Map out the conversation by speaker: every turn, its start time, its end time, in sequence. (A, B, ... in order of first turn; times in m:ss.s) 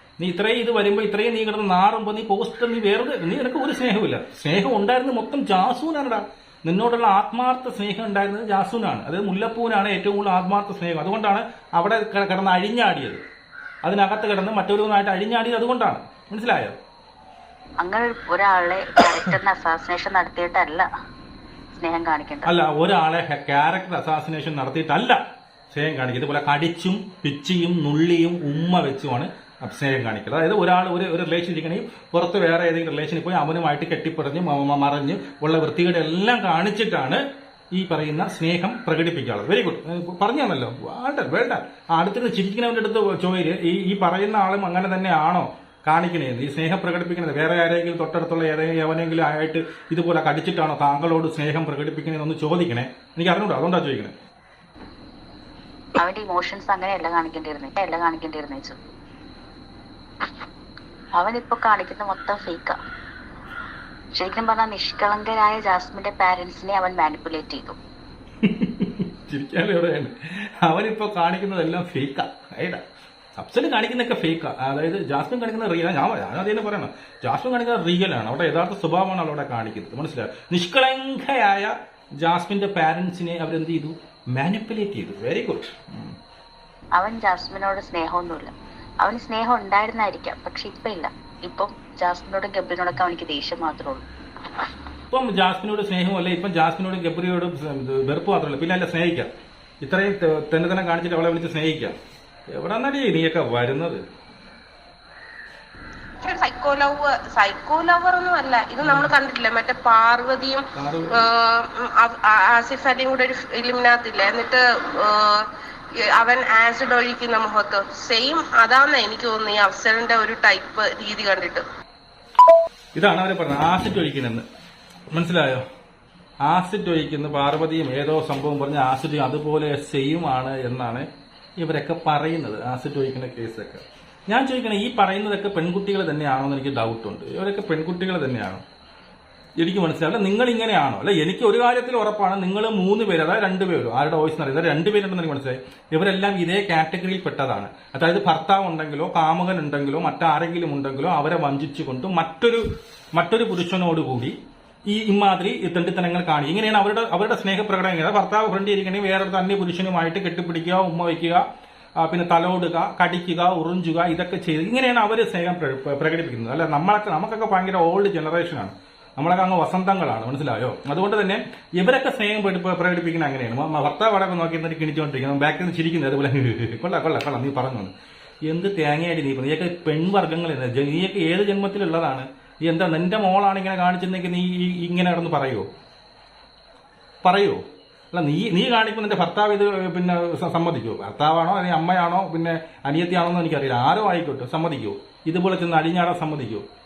0:00.2-0:13.2 A
0:13.8-0:16.8 A
0:17.8-0:20.8 B
0:21.8-0:22.5 B
0:22.4-0:25.2 A
0:25.7-0:37.2 A
0:37.7-0:54.1 A
0:56.0-0:58.8 B
1:01.2-1:02.8 B
1:04.1-1:07.8 B
1:08.4-1:12.8 A
1:13.4-1:26.2 A
1:27.0-1:34.0 B
1:35.1-1:39.3 A
1:39.8-1:41.9 A
1:42.5-1:44.0 A
1:46.2-1:55.5 C
1:48.8-1:49.1 A
1:50.7-1:51.2 A
1:56.0-2:01.6 C
2:02.9-2:04.4 A
2:05.1-2:05.6 A
2:06.4-2:11.1 A
2:11.6-2:18.6 A
2:19.6-2:32.6 A
2:33.1-2:34.4 A
2:34.9-2:41.4 A
2:42.0-2:57.9 A
2:58.4-3:05.7 A
3:07.2-3:07.6 A
3:08.1-3:16.6 A